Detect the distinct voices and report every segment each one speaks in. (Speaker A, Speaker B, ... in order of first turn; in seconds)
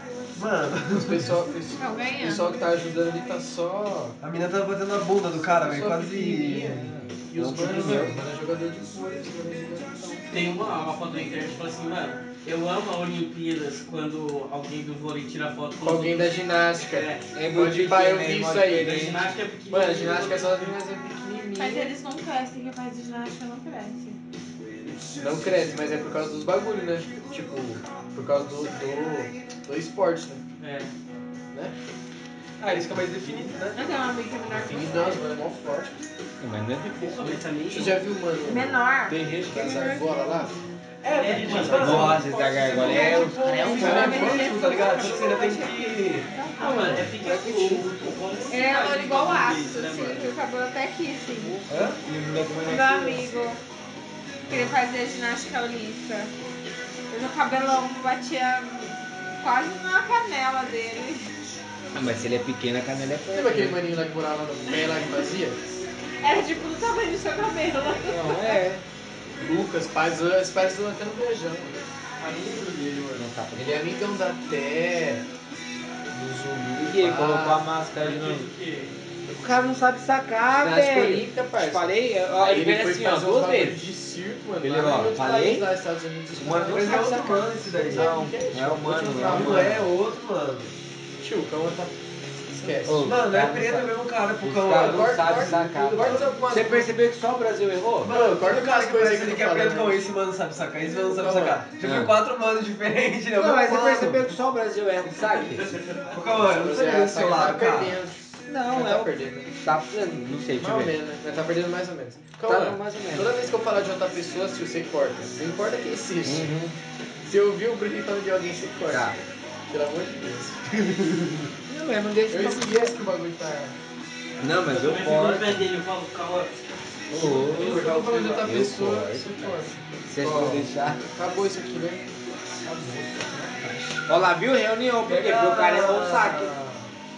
Speaker A: 0.3-1.4, 4.2-6.9, 32.6-33.8, 41.0-42.3, 42.8-43.1, 43.6-46.3, 51.7-52.0, 86.6-88.2, 89.1-90.7, 93.0-95.6, 98.0-104.3, 106.1-108.0, 127.4-128.4, 135.0-136.9
Speaker B: 0.9-4.2, 5.5-10.2, 15.8-21.9, 25.1-30.4, 34.5-36.0, 37.0-40.6, 41.5-41.9, 42.8-44.9, 63.3-65.6, 69.4-71.8, 73.2-75.2, 76.1-77.7, 80.5-89.9, 91.2-91.9, 92.5-93.1, 94.7-96.9, 98.0-100.1, 101.0-101.6, 106.4-109.5, 110.6-116.5, 117.2-121.5, 122.3-123.8, 127.1-132.1, 132.6-134.0
Speaker C: 1.8-2.5, 21.6-24.2, 33.7-35.2, 38.4-39.2, 42.7-46.9, 48.5-51.6, 52.6-53.6, 54.5-56.3, 57.1-61.3, 66.2-68.6
Speaker D: 6.9-8.2, 17.3-19.3, 36.4-36.9, 39.2-40.0, 41.7-44.3, 46.6-47.9, 51.4-53.3, 54.5-54.8, 61.9-63.8, 68.0-68.8, 73.2-73.8, 76.8-78.5, 79.2-83.8, 84.6-85.7, 86.3-89.9, 92.8-98.1, 101.8-102.1, 103.3-105.8, 108.5-111.0, 112.4-113.3, 116.2-116.8, 118.9-119.2, 121.7-123.0, 124.4-125.7, 127.1-131.0, 134.1-136.5
Speaker E: 10.3-17.3, 18.7-20.8, 30.6-30.9, 36.9-38.0, 41.0-43.3, 46.5-50.3, 72.2-73.2, 77.9-78.9, 105.6-106.2, 124.7-126.6